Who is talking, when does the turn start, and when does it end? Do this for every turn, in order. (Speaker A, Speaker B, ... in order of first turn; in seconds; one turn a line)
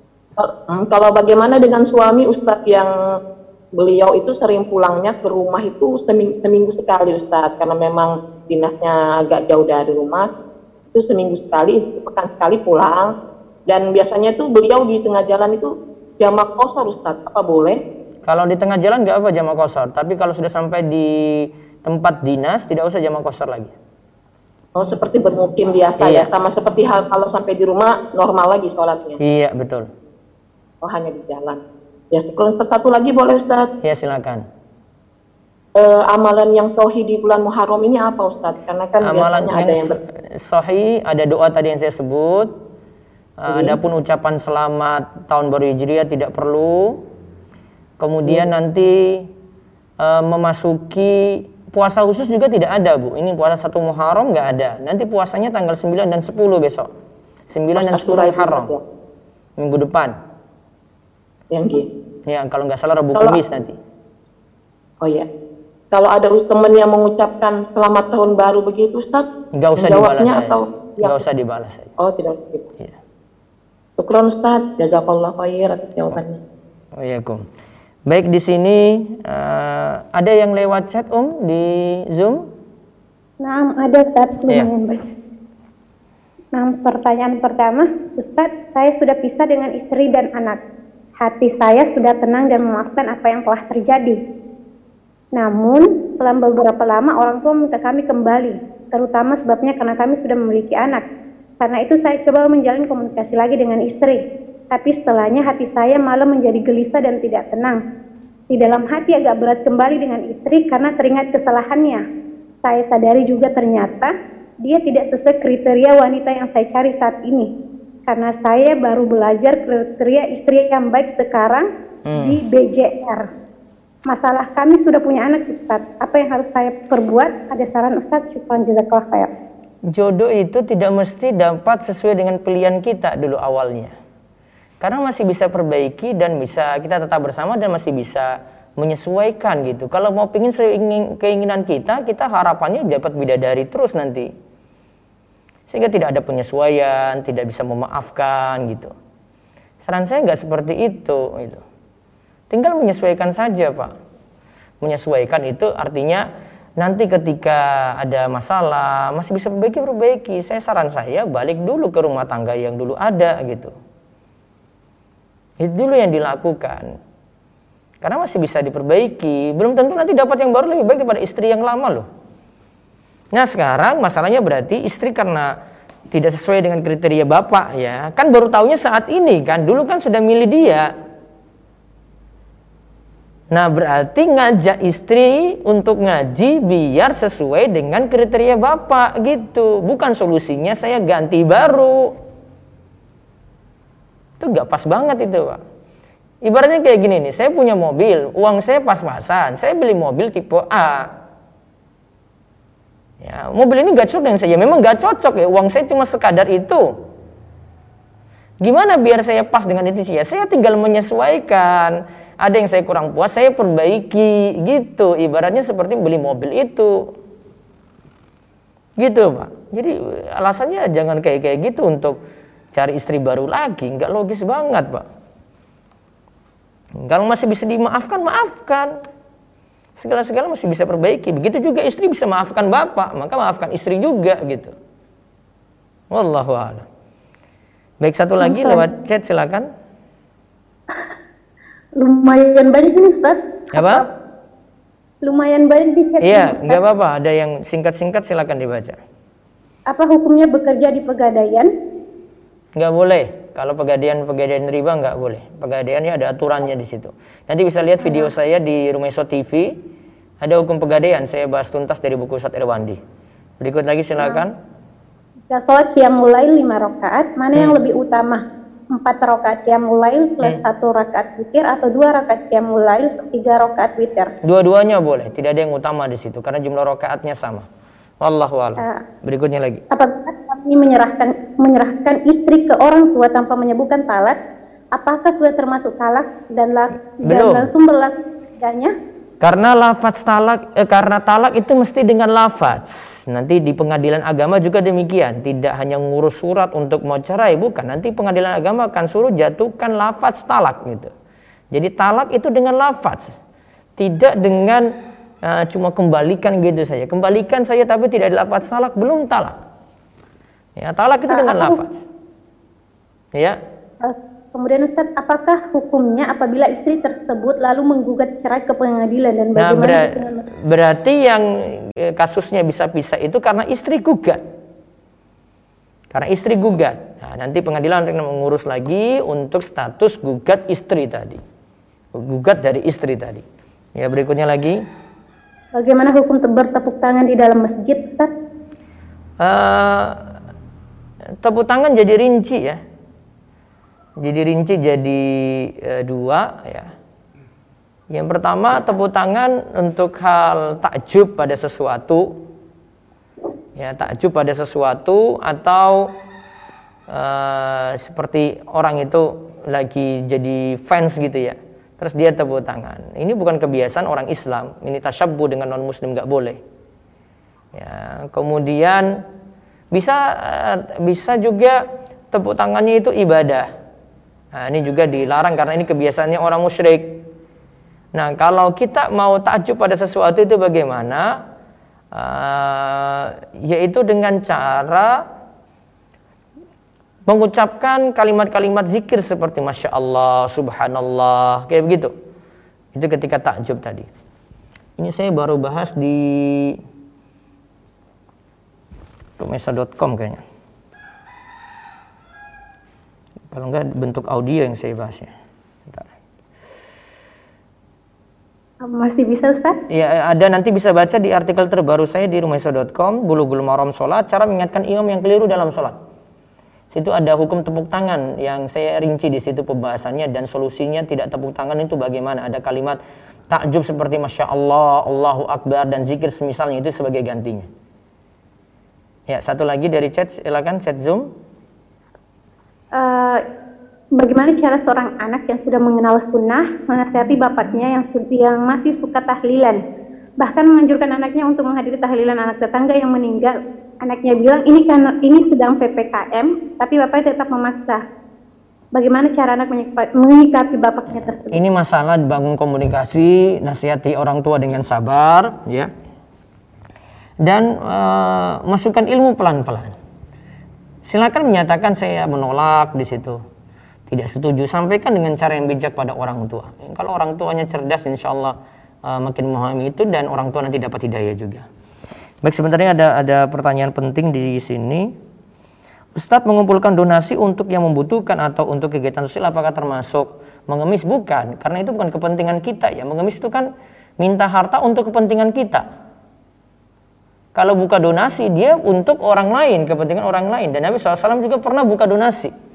Speaker A: 0.4-2.9
Speaker A: 3.8-10.3
Speaker A: 10.9-13.1
Speaker A: 13.7-17.8
Speaker B: 18.2-23.7
Speaker A: 24.8-29.2
Speaker B: 26.0-26.3
Speaker B: 29.2-29.9
Speaker A: 30.8-31.6
Speaker A: 32.1-33.7
Speaker B: 33.8-34.4
Speaker A: 35.8-40.0
Speaker B: 39.0-42.5
Speaker B: 43.4-47.0
Speaker A: 43.5-43.8
Speaker B: 48.0-49.3
Speaker B: 50.0-56.9
Speaker B: 57.5-58.7
Speaker A: 57.8-58.8
Speaker B: 59.6-60.1
Speaker A: 61.5-61.9
Speaker B: 62.3-63.8
Speaker A: 65.9-69.3
Speaker B: 69.6-72.0
Speaker A: 69.8-71.2
Speaker A: 72.0-72.7
Speaker A: 74.0-76.4
Speaker B: 77.0-77.4
Speaker B: 78.1-82.5
Speaker C: 83.4-85.1
Speaker C: 86.5-90.6
Speaker C: 91.2-94.2
Speaker C: 95.3-101.0
Speaker C: 101.6-107.8
Speaker C: 108.5-112.0
Speaker C: 112.6-117.5
Speaker C: 118.1-123.2
Speaker B: 122.1-122.4
Speaker C: 124.1-129.3
Speaker B: 129.9-133.9
Speaker B: 134.8-144.3
Speaker B: 145.7-148.9
Speaker B: 149.8-151.6
Speaker B: 152.5-153.9
Speaker B: 154.8-156.2
Speaker B: 156.8-163.7
Speaker B: 165.6-166.9
Speaker B: 168.0-172.1
Speaker B: 173.3-175.5
Speaker B: 176.1-180.9
Speaker B: 183.5-192.1
Speaker B: 194.4-195.6
Speaker B: 196.4-201.1
Speaker B: 203.2-206.9
Speaker B: 208.6-217.1
Speaker B: 219.0-222.2
Speaker B: 222.7-225.1
Speaker B: 227.0-228.9
Speaker B: 230.0-234.7
Speaker B: 236.1-236.9
Speaker B: 238.0-239.7
Speaker C: 238.4-238.9
Speaker C: 242.0-244.1
Speaker B: 243.7-244.0
Speaker C: 245.2-246.8
Speaker B: 246.2-249.0
Speaker C: 249.9-251.7
Speaker B: 252.8-259.8
Speaker C: 258.0-258.3
Speaker B: 260.4-263.0
Speaker B: 263.6-264.5
Speaker C: 265.5-268.4
Speaker C: 268.9-274.3
Speaker B: 274.4-277.7
Speaker B: 278.2-279.8
Speaker C: 279.9-284.4
Speaker C: 285.0-288.9
Speaker B: 287.2-287.7
Speaker B: 289.4-301.1
Speaker B: 301.7-303.4
Speaker B: 304.0-304.9
Speaker B: 305.4-309.6
Speaker B: 310.8-312.0
Speaker C: 311.3-311.8
Speaker C: 314.0-320.4
Speaker B: 319.6-324.4
Speaker B: 326.1-331.4
Speaker B: 332.1-333.4
Speaker B: 334.0-334.8
Speaker C: 335.8-338.3
Speaker B: 339.4-340.3
Speaker B: 341.4-342.8
Speaker B: 344.2-346.9
Speaker B: 348.1-352.4
Speaker B: 353.8-356.1
Speaker B: 357.1-366.6
Speaker B: 367.7-369.1
Speaker B: 369.9-371.8
Speaker B: 372.3-373.7
Speaker B: 374.6-377.2
Speaker B: 378.2-381.3
Speaker B: 382.1-385.1
Speaker B: 387.3-392.1
Speaker B: 392.9-394.1
Speaker B: 395.0-396.8
Speaker B: 399.4-400.4
Speaker B: 403.5-405.3
Speaker C: 408.8-409.8
Speaker B: 409.9-415.9
Speaker B: 416.9-423.0
Speaker B: 423.5-427.7
Speaker B: 429.3-431.3
Speaker C: 432.9-433.4
Speaker C: 434.2-439.8
Speaker C: 440.4-448.0
Speaker C: 448.9-451.6
Speaker B: 451.1-455.9
Speaker B: 457.4-459.9
Speaker B: 461.0-463.4
Speaker B: 464.1-471.6
Speaker B: 472.4-475.1
Speaker B: 476.2-483.7
Speaker B: 484.2-485.9
Speaker B: 487.6-492.5